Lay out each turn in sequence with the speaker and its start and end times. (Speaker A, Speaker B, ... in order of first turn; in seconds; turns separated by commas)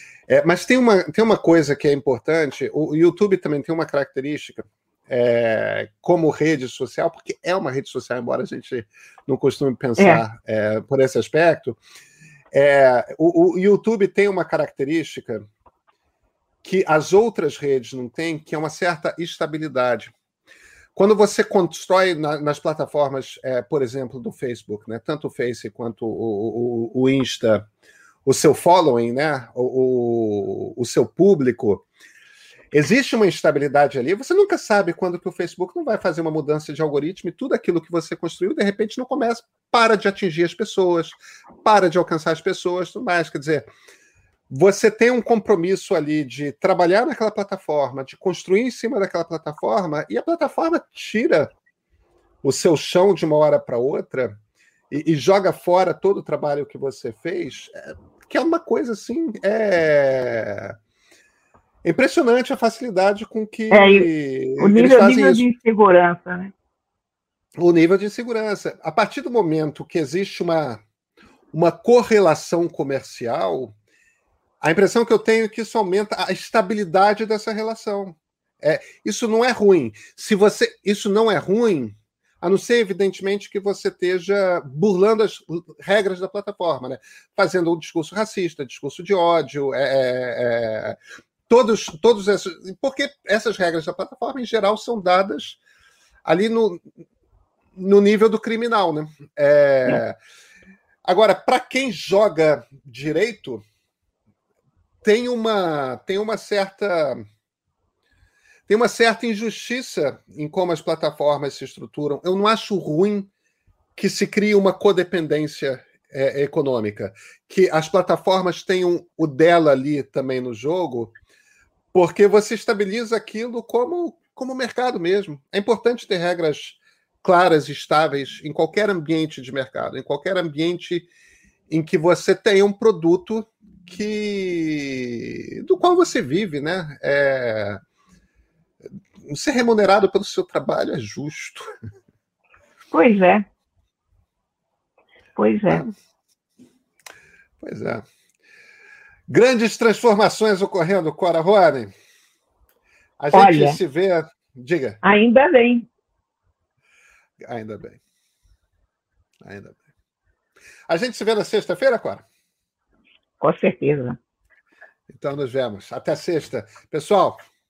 Speaker A: 0.3-11.8, Speaker B: 10.0-10.2, Speaker A: 12.5-15.4, Speaker A: 16.6-20.1, Speaker A: 20.9-27.7, Speaker A: 28.2-31.9, Speaker A: 32.7-43.7, Speaker A: 44.5-51.5, Speaker A: 52.4-54.4, Speaker A: 54.9-60.7, Speaker A: 61.8-65.5, Speaker B: 63.7-66.5, Speaker A: 67.6-70.8, Speaker A: 71.5-73.7, Speaker A: 74.6-91.0, Speaker A: 91.5-95.6, Speaker A: 96.2-96.8, Speaker A: 97.8-100.2, Speaker A: 101.0-103.6, Speaker A: 105.0-107.2, Speaker A: 108.7-113.3, Speaker A: 114.0-121.1, Speaker A: 121.9-131.1, Speaker A: 131.7-137.8, Speaker A: 139.2-141.6, Speaker B: 142.9-143.4, Speaker B: 145.3-145.8, Speaker A: 147.6-148.0, Speaker A: 149.3-151.9, Speaker A: 153.2-155.0, Speaker B: 153.3-153.8, Speaker B: 155.0-155.9, Speaker A: 157.4-158.0, Speaker A: 159.4-159.8, Speaker A: 160.9-162.2, Speaker B: 163.4-164.2, Speaker A: 165.1-167.4